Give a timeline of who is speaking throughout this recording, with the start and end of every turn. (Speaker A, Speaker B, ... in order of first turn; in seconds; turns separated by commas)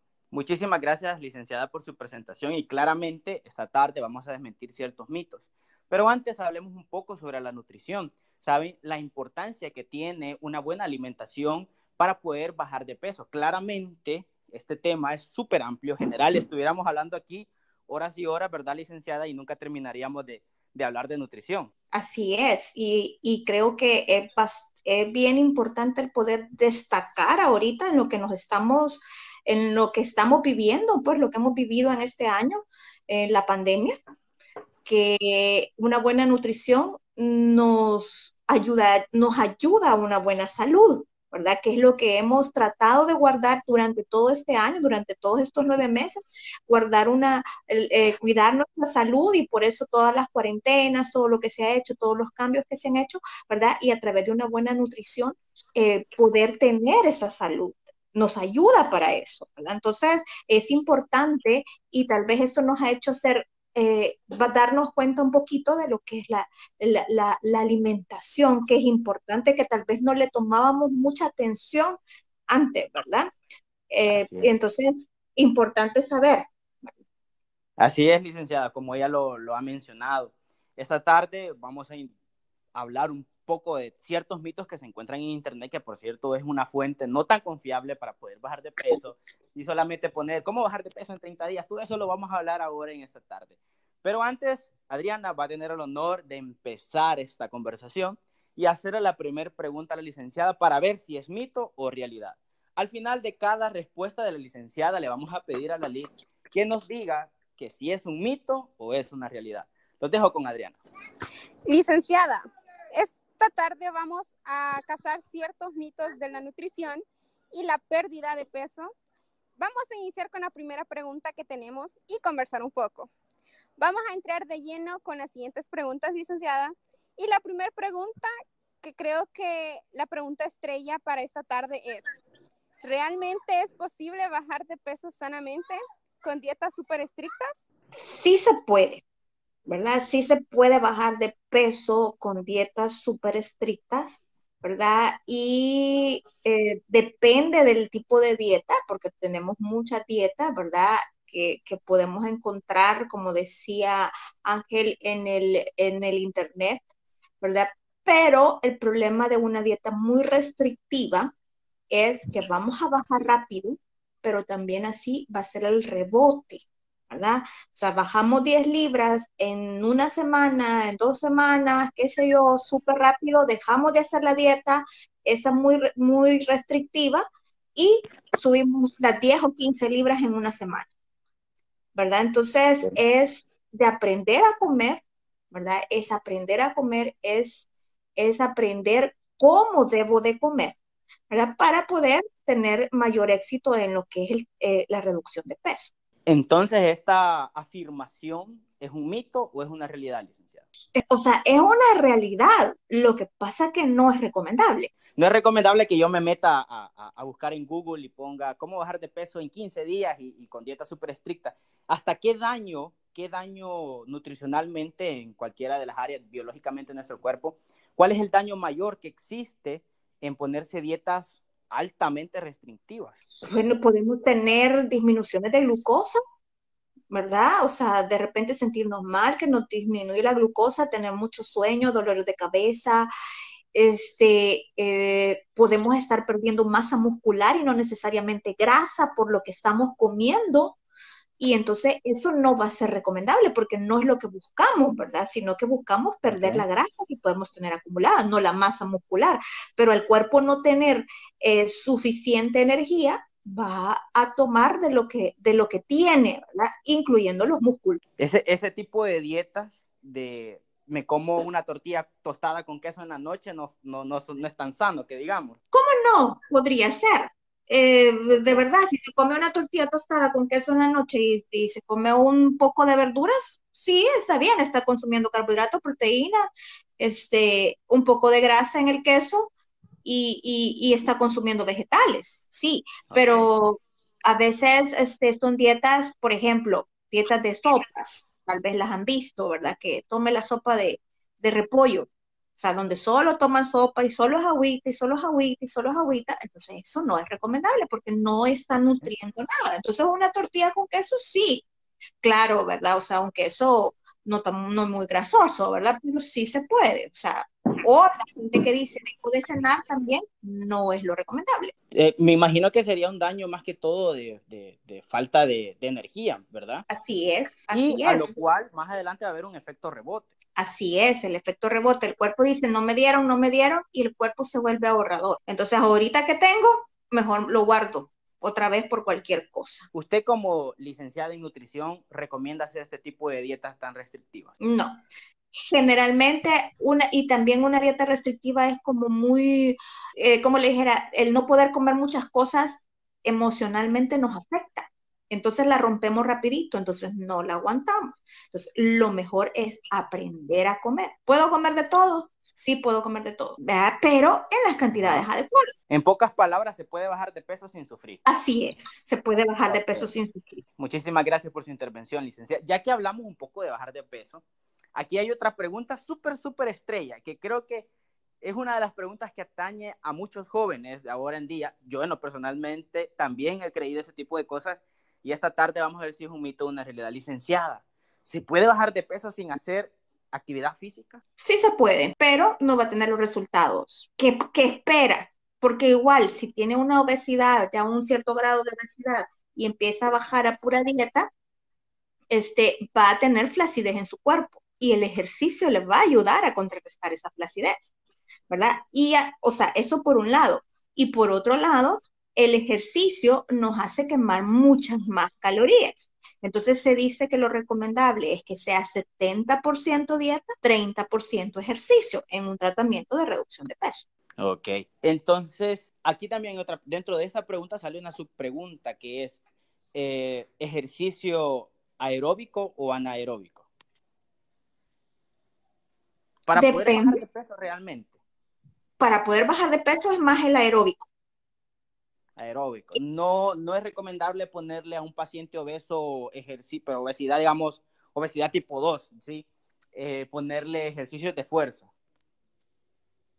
Speaker A: 0.3-21.7, Speaker B: 21.9-34.0, Speaker B: 34.9-72.0, Speaker B: 72.5-73.3, Speaker B: 73.9-77.0, Speaker A: 74.1-74.5, Speaker A: 77.8-82.1, Speaker A: 82.7-110.8, Speaker C: 111.7-112.4, Speaker C: 112.9-118.9, Speaker C: 119.6-123.1, Speaker C: 123.8-128.3, Speaker C: 128.8-132.1, Speaker C: 132.8-137.6, Speaker B: 137.9-139.0, Speaker B: 139.7-156.9, Speaker B: 157.4-161.3, Speaker B: 161.9-177.2, Speaker B: 177.8-180.9, Speaker B: 181.9-190.8, Speaker B: 191.3-195.9, Speaker A: 196.3-200.6, Speaker B: 200.9-204.9, Speaker A: 205.2-223.2, Speaker B: 223.4-226.2, Speaker B: 227.1-233.1, Speaker B: 233.7-240.8, Speaker B: 241.4-258.0, Speaker A: 246.3-246.7, Speaker A: 258.2-265.6, Speaker B: 265.7-276.4, Speaker A: 268.3-268.6, Speaker B: 277.0-279.5, Speaker B: 280.0-301.6, Speaker A: 283.1-283.5, Speaker B: 302.2-311.7, Speaker A: 311.9-316.9, Speaker B: 316.9-318.4, Speaker A: 317.7-320.3, Speaker B: 320.6-329.9, Speaker A: 329.9-334.5, Speaker B: 334.6-335.0, Speaker B: 335.6-355.7, Speaker A: 355.0-355.3, Speaker A: 355.9-358.2, Speaker B: 358.2-360.6, Speaker A: 359.7-360.1, Speaker A: 360.8-364.4, Speaker A: 364.9-367.9, Speaker A: 368.4-381.2, Speaker B: 381.4-391.3, Speaker B: 392.3-397.9, Speaker B: 398.5-414.1, Speaker A: 414.4-419.4, Speaker A: 419.9-423.7, Speaker A: 426.5-428.1, Speaker B: 426.6-427.2, Speaker B: 429.0-431.1, Speaker A: 432.4-441.9